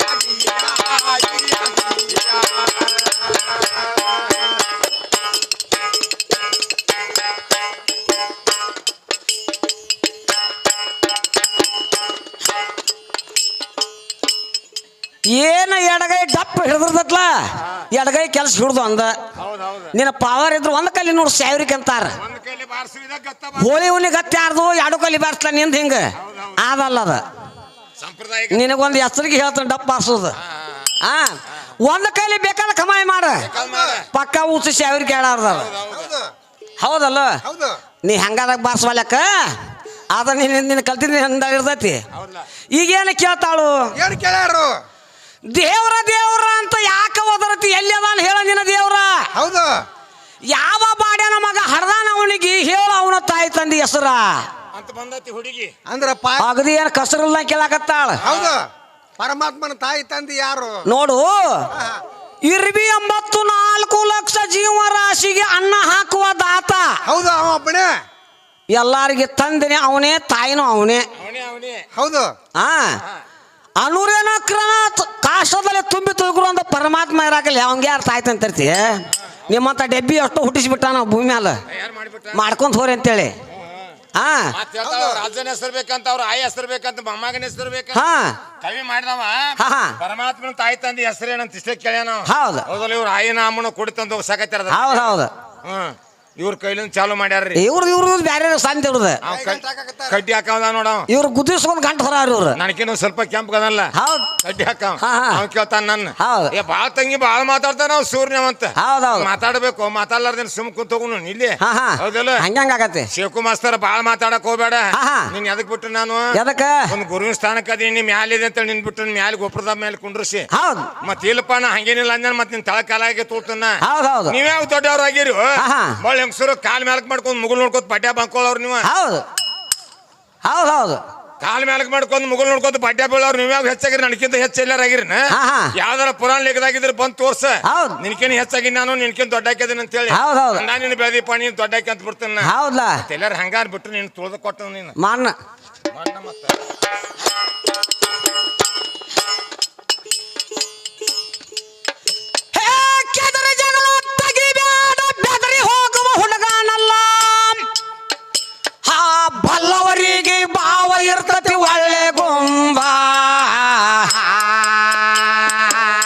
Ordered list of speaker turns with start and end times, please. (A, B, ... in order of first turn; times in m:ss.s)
0:00.2-0:02.6 A
0:15.3-0:19.2 B
0:19.4-0:20.0 A
0:19.9-0:22.2 B
0:22.2-0:23.8 A
0:23.6-0:27.2 B
0:26.2-0:26.6 A
0:28.0-0:28.7 A
0:28.5-0:30.4 B
0:30.4-0:31.0 A
0:31.0-0:33.5 B
0:33.4-0:34.1 A
0:33.6-0:34.0 C
0:34.1-0:35.7 B
0:35.5-0:36.1 A
0:35.9-0:36.3 C
0:36.8-0:37.4 B
0:37.4-0:37.8 C
0:38.0-0:39.6 B
0:40.1-0:42.0 B
0:42.1-0:42.5 A
0:42.7-0:43.9 B
0:44.0-0:44.7 C
0:45.5-0:49.3 B
0:49.4-0:49.8 C
0:50.5-0:54.5 B
0:54.7-0:55.7 A
0:55.9-0:56.5 C
0:56.4-0:58.2 B
0:58.2-0:58.6 A
0:58.2-0:58.6 C
0:59.2-1:00.8 C
1:00.8-1:01.7 B
1:01.7-1:02.0 C
1:02.5-1:07.0 B
1:07.1-1:07.9 C
1:08.7-1:11.1 B
1:11.2-1:11.9 A
1:12.0-1:12.3 C
1:12.6-1:13.0 B
1:13.8-1:21.6 B
1:21.7-1:22.4 A
1:22.3-1:23.4 B
1:23.5-1:23.9 A
1:24.2-1:24.6 B
1:24.5-1:28.0 A
1:24.8-1:25.2 C
1:27.9-1:28.4 B
1:28.6-1:37.6 A
1:29.6-1:30.0 B
1:32.3-1:32.6 B
1:34.7-1:35.3 B
1:37.6-1:39.2 B
1:39.2-1:41.1 A
1:39.3-1:40.2 C
1:41.1-1:42.6 B
1:42.6-1:52.4 A
1:43.9-1:44.3 B
1:45.0-1:45.4 B
1:46.2-1:46.5 B
1:48.8-1:49.3 B
1:51.6-1:53.1 B
1:53.1-1:56.3 A
1:54.9-1:55.3 B
1:56.3-1:56.8 B
1:56.9-2:00.5 A
2:00.5-2:00.9 B
2:01.0-2:08.9 A
2:03.8-2:04.4 B
2:05.6-2:06.0 B
2:08.8-2:09.2 B
2:10.4-2:11.0 B
2:11.4-2:15.2 A
2:15.3-2:15.7 B
2:15.8-2:22.5 A
2:17.6-2:18.0 B
2:20.1-2:20.6 B
2:22.4-2:23.0 B
2:23.0-2:25.0 A
2:25.0-2:25.3 B
2:25.9-2:26.6 A
2:32.5-2:37.7 B
2:38.8-2:44.4 B